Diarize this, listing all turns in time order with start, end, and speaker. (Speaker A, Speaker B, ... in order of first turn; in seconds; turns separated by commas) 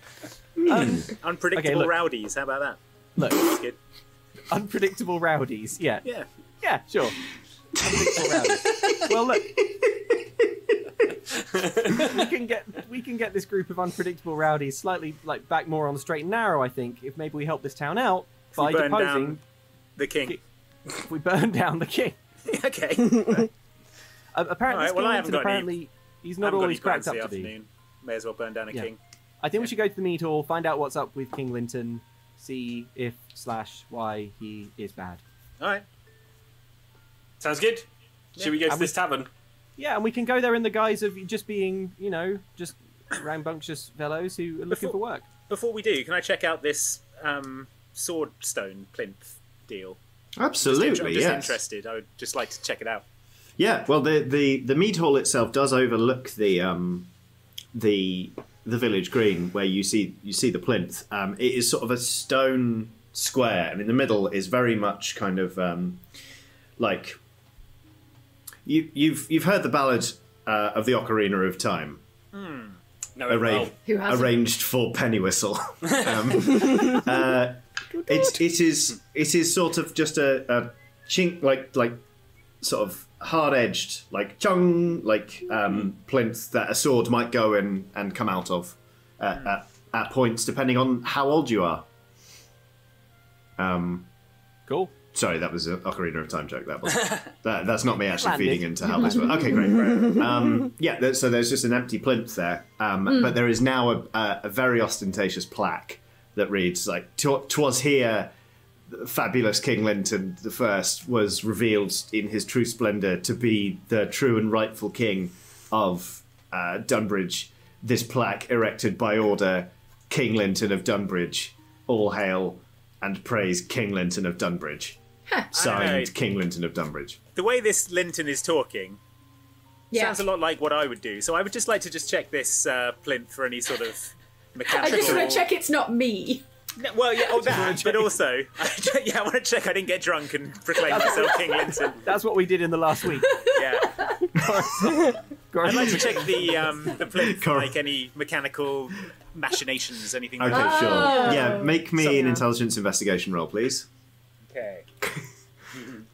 Speaker A: 0.7-1.9, Speaker B: 1.2-3.8, Speaker A: 3.1-3.6, Speaker A: 4.5-6.0, Speaker A: 6.6-7.2, Speaker A: 7.8-9.5, Speaker C: 7.8-8.4, Speaker A: 11.9-19.4, Speaker B: 18.5-19.4, Speaker B: 20.0-20.4, Speaker A: 20.9-22.2, Speaker B: 22.5-23.5, Speaker A: 24.3-27.5, Speaker B: 24.7-25.7, Speaker B: 26.4-29.0, Speaker A: 29.4-35.2, Speaker B: 35.6-35.8, Speaker D: 37.4-37.9, Speaker D: 38.4-39.3, Speaker A: 38.6-39.0, Speaker A: 39.8-45.3, Speaker B: 44.7-50.0, Speaker C: 50.4-51.6, Speaker B: 50.6-53.0, Speaker C: 53.6-57.1, Speaker C: 57.7-66.0, Speaker C: 66.8-67.2, Speaker C: 68.7-72.0, Speaker B: 72.3-72.7, Speaker D: 73.2-73.7, Speaker C: 73.3-82.0, Speaker E: 73.8-74.4, Speaker C: 82.6-91.8, Speaker C: 93.6-94.1, Speaker A: 94.7-94.9, Speaker C: 95.1-108.3, Speaker A: 98.1-99.7, Speaker E: 103.0-103.4, Speaker C: 108.9-125.0, Speaker E: 125.3-125.5, Speaker C: 125.5-127.2, Speaker B: 125.5-126.1, Speaker B: 127.3-129.0, Speaker E: 129.9-130.2, Speaker B: 129.9-135.4, Speaker E: 134.7-136.4, Speaker D: 134.8-135.4, Speaker B: 136.8-142.0, Speaker A: 137.4-138.2, Speaker A: 140.9-143.4, Speaker E: 143.2-144.2, Speaker B: 143.5-143.9, Speaker A: 144.3-146.8, Speaker B: 145.6-151.4, Speaker C: 147.1-147.8, Speaker C: 150.4-153.9, Speaker E: 150.5-152.4, Speaker B: 154.5-154.8